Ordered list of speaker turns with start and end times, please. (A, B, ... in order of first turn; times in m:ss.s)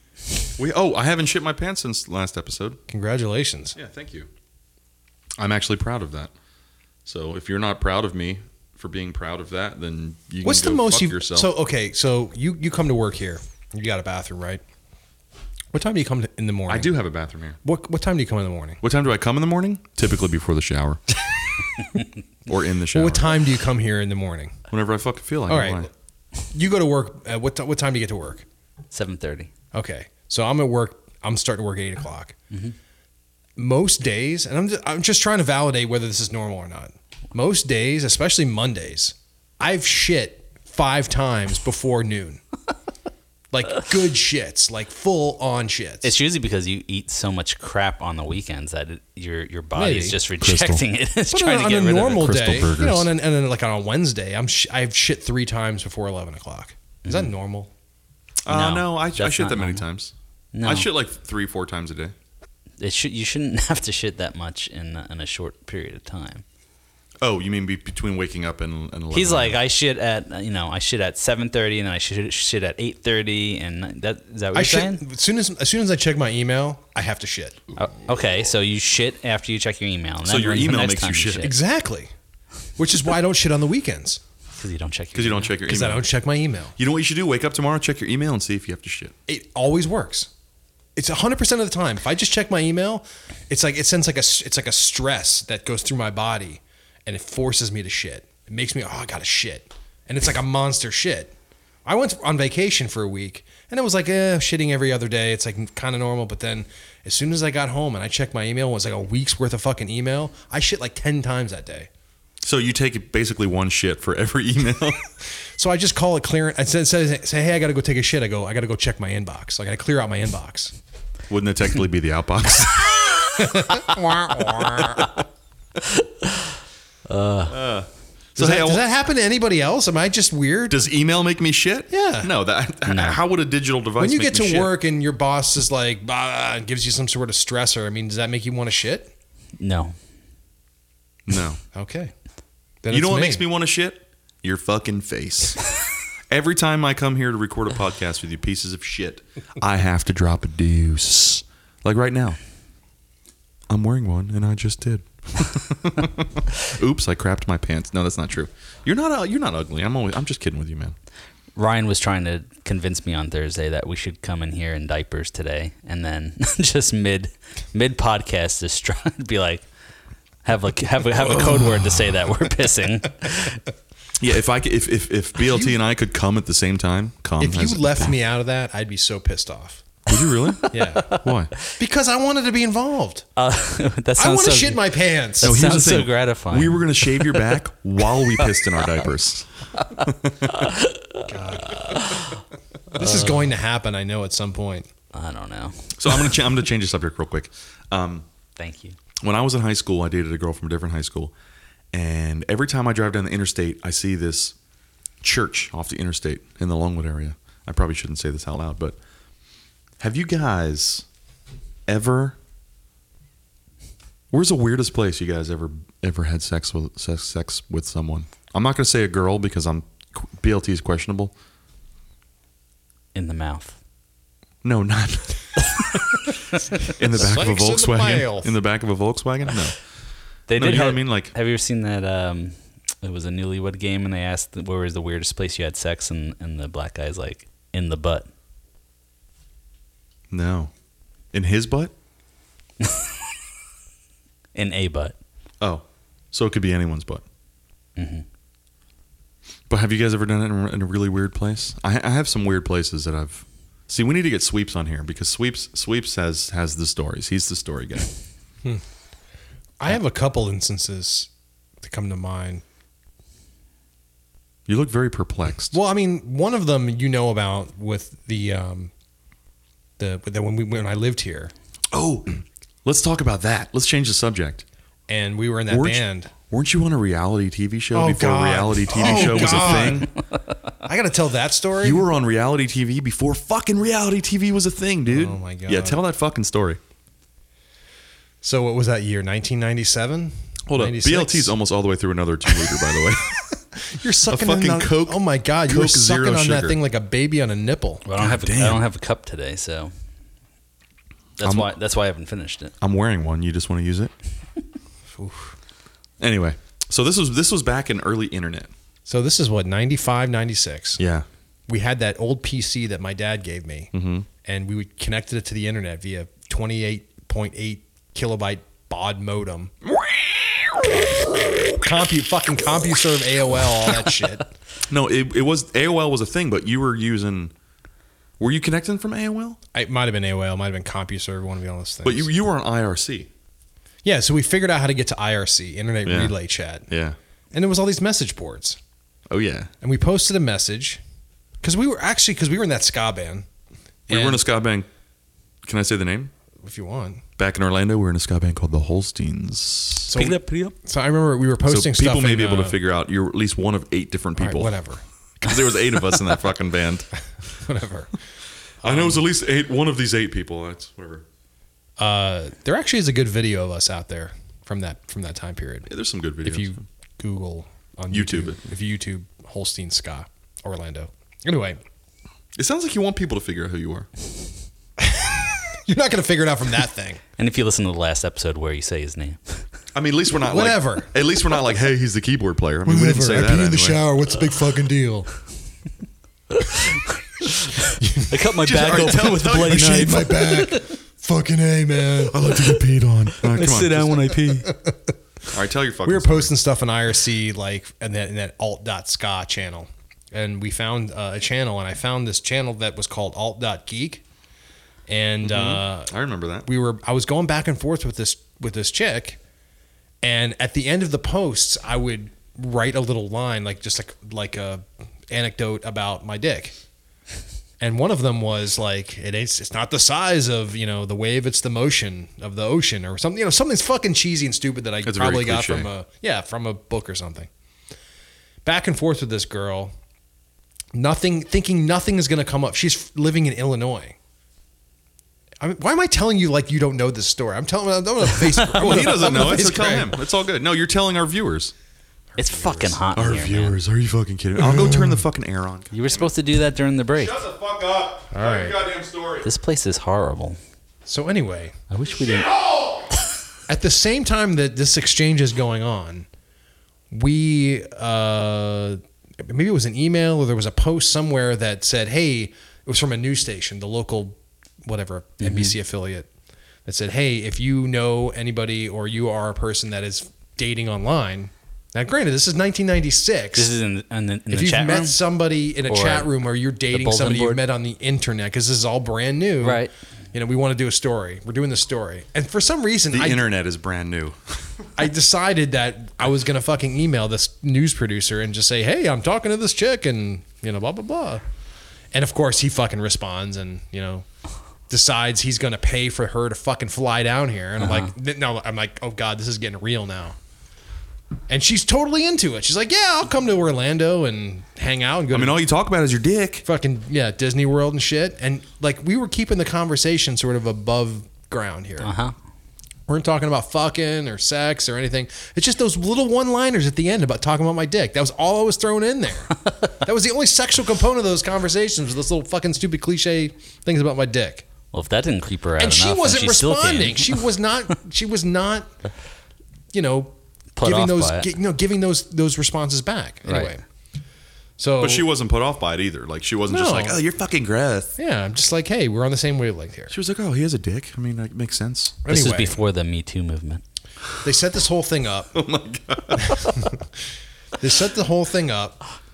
0:00.6-0:02.8 A
0:02.9-0:03.8 B
0:03.8-0:04.3 A
0:05.4-0:06.3 A
0:07.1-0:11.5 A
0:10.4-0:14.6 B
0:15.7-0:16.9 B
0:16.7-0:17.6 A
0:17.6-0:18.8 B
0:18.8-0:21.1 A
0:22.5-0:23.4 A
0:22.9-0:24.6 B
0:24.7-0:25.9 A
0:25.5-0:25.9 B
0:26.5-0:28.5 B
0:28.9-0:29.5 C
0:29.7-0:32.4 B
0:33.6-0:42.4 B
0:43.5-0:46.1 B
0:46.0-0:52.5 C
0:49.7-0:50.2 B
0:50.4-0:50.8 A
0:51.3-0:57.7 B
0:52.2-0:53.1 A
0:57.1-0:57.3 C
0:58.4-1:00.1 A
0:58.5-0:59.9 C
1:00.5-1:00.9 C
1:00.6-1:02.2 A
1:02.8-1:06.4 C
1:07.2-1:09.6 A
1:09.1-1:15.0 C
1:14.5-1:17.6 B
1:17.8-1:21.5 C
1:20.2-1:21.5 A
1:21.4-1:22.1 B
1:22.8-1:24.2 B
1:24.6-1:25.5 C
1:25.1-1:26.1 A
1:25.7-1:26.8 B
1:26.8-1:29.1 A
1:29.3-1:30.3 B
1:31.0-1:41.3 B
1:41.8-1:51.9 B
1:52.4-1:55.1 A
1:55.6-2:00.7 B
2:01.3-2:03.0 A
2:03.4-2:05.1 B
2:05.8-2:06.5 C
2:07.1-2:07.6 C
2:07.5-2:08.8 A
2:08.4-2:10.8 B
2:10.7-2:14.7 A
2:11.9-2:12.3 B
2:12.9-2:13.2 C
2:14.0-2:19.1 B
2:19.6-2:20.0 C
2:21.3-2:21.6 A
2:21.7-2:22.1 B
2:22.8-2:23.4 B
2:22.9-2:25.7 A
2:26.3-2:32.4 A
2:33.7-2:41.0 A
2:41.6-2:49.6 C
2:50.4-2:53.7 C
2:54.2-2:58.1 A
2:57.4-2:59.9 B
3:00.1-3:01.5 A
3:00.7-3:01.1 B
3:00.7-3:01.2 C
3:01.7-3:03.2 B
3:03.4-3:07.5 C
3:04.2-3:05.6 B
3:05.4-3:10.5 A
3:08.2-3:08.7 C
3:10.5-3:12.4 C
3:11.3-3:12.2 B
3:12.9-3:14.9 B
3:13.0-3:13.4 C
3:15.1-3:16.3 C
3:16.0-3:18.3 A
3:18.6-3:19.0 C
3:19.2-3:21.3 A
3:21.9-3:24.6 A
3:25.2-3:29.0 A
3:30.0-3:31.1 A
3:31.9-3:32.4 A
3:34.3-3:41.3 A
3:43.1-3:43.8 C
3:44.6-3:49.8 A
3:47.1-3:48.5 B
3:50.5-3:58.3 C
3:50.6-3:51.3 A
4:00.3-4:00.7 A
4:01.3-4:01.9 A
4:04.6-4:05.2 C
4:05.6-4:07.2 A
4:08.0-4:08.2 C
4:09.7-4:18.1 A
4:19.8-4:21.3 B
4:21.8-4:22.6 B
4:24.7-4:25.8 A
4:25.7-4:28.9 B
4:30.0-4:31.5 B
4:31.9-4:34.6 A
4:35.1-4:36.3 B
4:35.7-4:40.1 A
4:37.9-4:40.1 B
4:40.8-4:42.1 B
4:41.8-4:46.8 A
4:45.1-4:46.0 B
4:48.4-4:51.5 B
4:50.7-4:53.4 A
4:52.5-4:58.0 B
4:54.2-4:56.8 A
4:58.0-4:59.9 C
4:58.2-4:58.8 A
5:01.4-5:02.8 C
5:01.4-5:01.7 A
5:02.8-5:04.1 A
5:05.1-5:05.6 B
5:06.2-5:08.7 A
5:09.1-5:11.0 B
5:11.0-5:11.3 A
5:11.7-5:19.7 B
5:13.9-5:14.3 A
5:19.9-5:21.0 A
5:21.8-5:24.5 B
5:24.9-5:27.5 A
5:28.4-5:29.6 A
5:29.7-5:32.3 B
5:32.0-5:33.3 A
5:34.0-5:36.9 B
5:36.0-5:36.3 A
5:36.9-5:37.2 A
5:37.5-5:38.8 B
5:39.3-5:39.7 A
5:39.8-5:41.0 B
5:41.6-5:43.5 B
5:44.1-5:44.4 B
5:44.1-5:44.9 A
5:45.6-5:46.3 A
5:46.6-5:47.2 B
5:47.4-5:50.2 A
5:50.1-5:52.8 B
5:50.1-5:50.7 C
5:51.7-5:54.8 A
5:54.4-5:55.0 B
5:55.4-5:57.1 A
5:57.5-5:58.1 B
5:58.8-5:59.2 B
5:58.8-6:01.2 A
6:02.0-6:05.9 B
6:05.9-6:06.8 A
6:06.4-6:11.8 B
6:08.1-6:08.6 A
6:12.6-6:14.1 A
6:15.0-6:17.2 B
6:17.4-6:19.6 C
6:19.9-6:24.0 A
6:20.4-6:21.1 B
6:22.8-6:25.3 B
6:26.6-6:30.9 C
6:27.8-6:28.4 B
6:28.6-6:30.3 A
6:28.9-6:32.6 B
6:32.2-6:34.4 A
6:33.4-6:34.7 C
6:34.5-6:35.1 B
6:35.5-6:36.5 A
6:36.0-6:44.2 B
6:45.1-6:46.1 B
6:45.4-6:46.7 A
6:46.6-6:49.4 B
6:50.2-6:56.8 B
6:57.8-7:07.5 B
7:05.0-7:05.9 A
7:08.6-7:09.9 B
7:10.9-7:14.2 B
7:15.6-7:20.2 B
7:18.8-7:19.3 C
7:18.8-7:21.7 A
7:22.3-7:23.0 B
7:22.4-7:23.8 C
7:23.2-7:26.3 A
7:24.6-7:25.2 B
7:25.9-7:27.4 C
7:27.1-7:29.5 A
7:28.3-7:28.8 B
7:29.4-7:30.6 C
7:31.1-7:31.8 B
7:31.9-7:32.6 C
7:32.3-7:33.1 A
7:33.7-7:36.3 B
7:37.1-7:46.3 B
7:45.4-7:45.8 C
7:46.9-7:53.7 B
7:53.6-7:55.2 C
7:54.5-8:03.5 B
7:55.9-7:56.3 C
7:56.9-7:57.6 C
7:59.6-7:59.9 C
8:03.1-8:04.8 A
8:05.0-8:11.4 B
8:12.1-8:14.3 B
8:14.9-8:20.4 B
8:17.8-8:18.1 C
8:21.5-8:25.6 B
8:25.3-8:26.6 A
8:26.6-8:32.1 B
8:32.0-8:32.3 C
8:33.1-8:44.6 B
8:44.9-8:47.5 C
8:45.8-8:48.9 B
8:49.9-8:53.8 B
8:50.8-8:51.5 C
8:53.5-8:53.8 C
8:54.8-8:55.3 B
8:55.0-8:58.2 A
8:56.7-8:57.2 B
8:58.2-9:00.1 B
9:00.1-9:02.2 A
9:02.2-9:02.8 B
9:02.3-9:03.8 C
9:04.4-9:05.5 B
9:05.5-9:06.8 A
9:06.4-9:07.0 B
9:07.8-9:09.0 B